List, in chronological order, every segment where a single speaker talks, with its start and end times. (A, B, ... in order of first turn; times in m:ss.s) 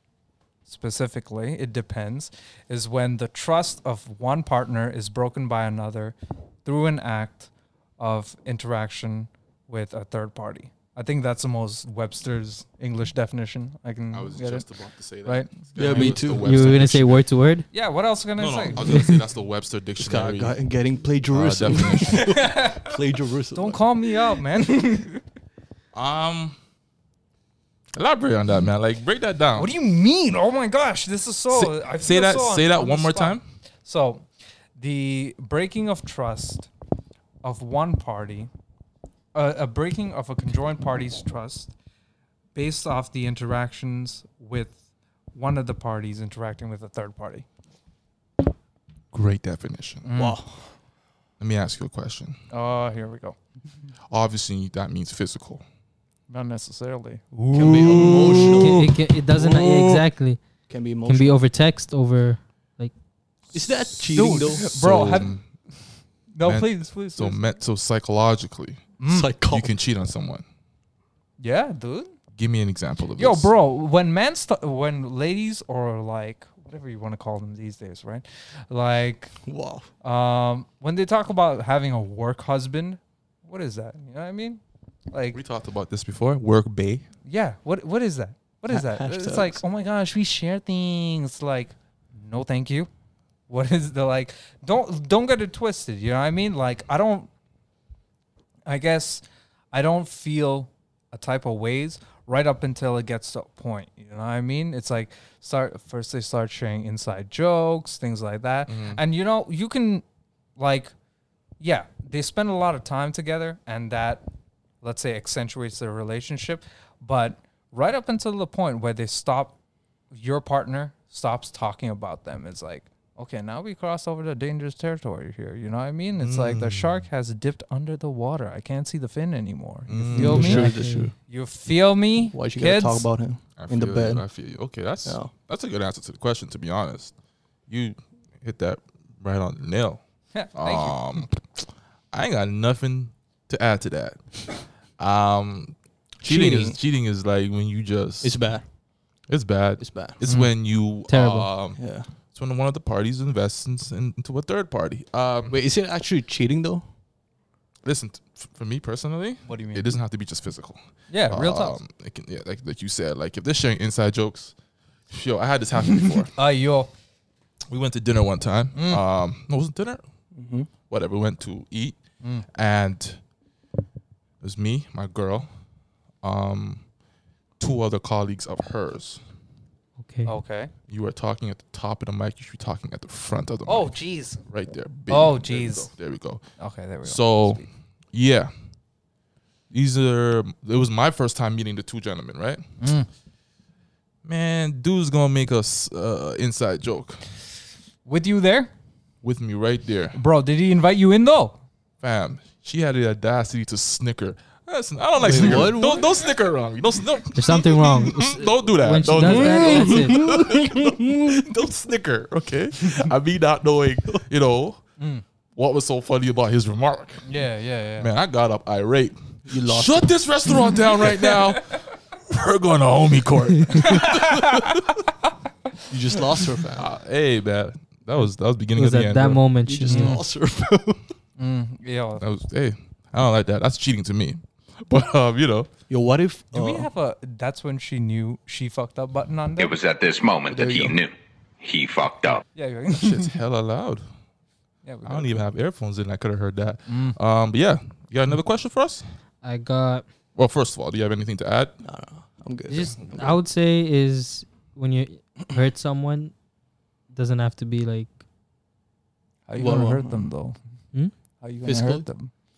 0:00.7-0:14.7 A
0:14.1-0:17.2 B
0:15.2-0:16.1 A
0:15.8-0:16.7 C
0:15.8-0:17.7 D
0:17.7-0:19.1 A
0:18.4-0:20.6 B
0:20.0-0:23.8 C
0:21.3-0:22.5 B
0:22.1-0:22.9 A
0:23.5-0:25.2 A
0:25.9-0:26.6 B
0:28.0-0:29.7 B
0:29.6-0:36.7 A
0:31.5-0:33.4 B
0:37.4-0:38.5 A
0:39.3-0:41.7 A
0:42.6-0:44.8 A
0:45.3-0:47.5 A
0:49.1-0:50.1 B
0:50.0-0:50.4 A
0:50.2-0:50.7 C
0:51.4-0:52.4 B
0:52.5-0:53.4 A
0:54.1-0:55.6 B
0:56.3-0:58.5 A
0:57.5-1:00.0 C
0:58.1-0:58.4 B
0:58.4-1:00.4 D
1:00.7-1:01.4 C
1:01.1-1:02.9 D
1:03.5-1:05.4 B
1:03.5-1:04.7 C
1:04.1-1:05.4 A
1:06.3-1:07.4 A
1:06.4-1:08.9 B
1:09.0-1:09.3 A
1:09.1-1:09.7 C
1:09.5-1:10.4 B
1:11.4-1:12.1 A
1:12.4-1:13.5 B
1:13.2-1:19.4 A
1:19.4-1:19.9 C
1:20.0-1:25.4 A
1:25.3-1:27.1 B
1:27.3-1:32.9 A
1:28.7-1:29.6 C
1:33.5-1:37.3 A
1:38.7-1:50.0 A
1:48.7-1:49.0 B
1:50.6-1:50.9 A
1:51.6-1:54.2 A
1:54.8-1:59.6 A
2:00.1-2:10.7 A
2:06.2-2:07.0 B
2:09.9-2:10.7 B
2:10.1-2:11.1 C
2:10.2-2:11.1 D
2:11.3-2:13.1 A
2:12.3-2:14.3 C
2:13.6-2:17.1 B
2:15.0-2:15.3 C
2:17.7-2:20.0 B
2:20.3-2:21.2 A
2:20.6-2:28.5 B
2:26.2-2:26.8 C
2:28.2-2:28.6 C
2:29.3-2:35.6 B
2:29.8-2:30.2 C
2:30.2-2:30.5 A
2:31.1-2:31.5 D
2:31.8-2:32.1 C
2:35.5-2:36.8 C
2:37.8-2:44.6 B
2:39.5-2:40.0 A
2:41.1-2:41.8 A
2:45.1-2:46.3 B
2:46.3-2:46.9 A
2:47.7-2:50.0 B
2:48.7-2:49.0 A
2:50.3-2:50.7 C
2:50.9-2:52.0 B
2:52.5-2:53.2 B
2:54.4-2:55.5 B
2:56.2-2:56.8 B
2:57.6-2:59.2 B
3:00.0-3:00.3 D
3:00.3-3:00.7 A
3:00.9-3:06.4 B
3:03.7-3:04.4 A
3:05.1-3:05.9 A
3:06.6-3:07.7 A
3:07.0-3:08.5 B
3:09.7-3:12.7 B
3:12.8-3:13.1 A
3:14.2-3:17.3 B
3:18.1-3:18.7 A
3:19.2-3:20.2 B
3:20.1-3:21.6 A
3:22.0-3:34.8 B
3:25.2-3:26.2 C
3:27.4-3:30.4 D
3:29.2-3:31.5 C
3:35.0-3:35.2 A
3:35.6-3:37.3 B
3:37.2-3:38.1 A
3:38.0-3:45.0 B
3:39.5-3:40.6 C
3:43.8-3:44.7 A
3:45.9-3:46.9 C
3:46.8-3:49.5 B
3:48.8-3:50.2 D
3:49.6-3:51.0 C
3:49.9-3:50.2 A
3:51.4-3:52.2 A
3:52.2-3:55.7 B
3:55.9-3:56.9 C
3:56.5-3:59.8 A
3:59.6-4:02.4 E
4:00.5-4:01.0 C
4:02.6-4:03.4 A
4:02.9-4:04.0 B
4:04.8-4:05.3 A
4:05.0-4:09.1 B
4:06.9-4:07.2 A
4:09.4-4:10.0 D
4:10.4-4:11.8 B
4:11.8-4:13.4 C
4:12.7-4:16.3 D
4:17.1-4:18.1 D
4:19.5-4:20.6 A
4:19.6-4:20.3 C
4:21.4-4:22.3 A
4:21.6-4:22.1 C